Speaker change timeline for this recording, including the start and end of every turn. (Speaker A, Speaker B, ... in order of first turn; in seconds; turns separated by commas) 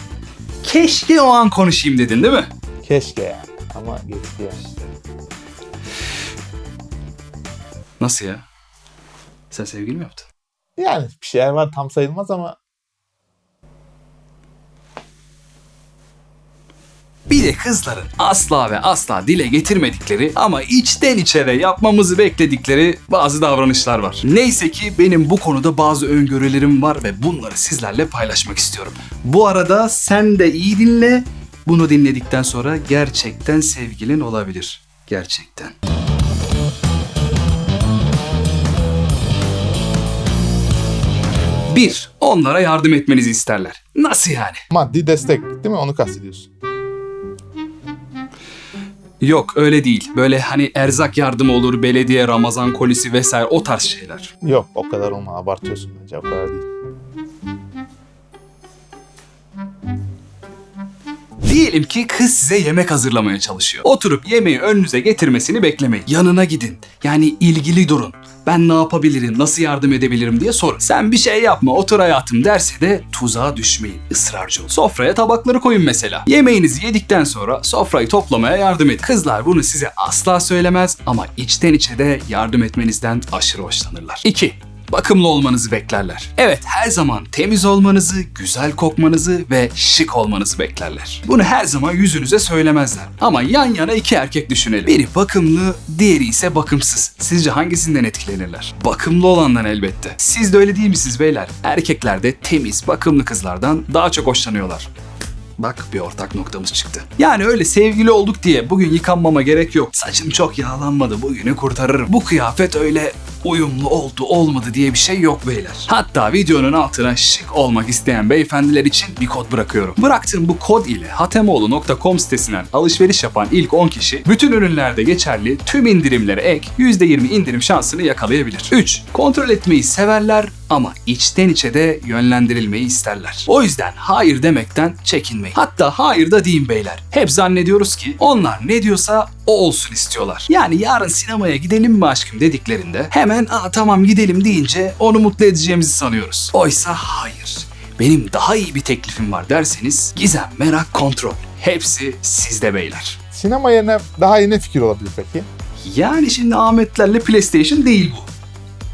Speaker A: 0.6-2.5, Speaker B: 2.8-4.7, Speaker A: 8.0-8.4, Speaker A: 9.5-10.3, Speaker B: 10.8-12.6, Speaker A: 17.3-35.8, Speaker A: 41.7-44.6, Speaker B: 44.7-46.5, Speaker A: 49.2-54.3, Speaker B: 54.4-56.6, Speaker A: 61.4-104.9, Speaker A: 105.6-153.2, Speaker B: 153.3-155.5, Speaker A: 155.8-158.3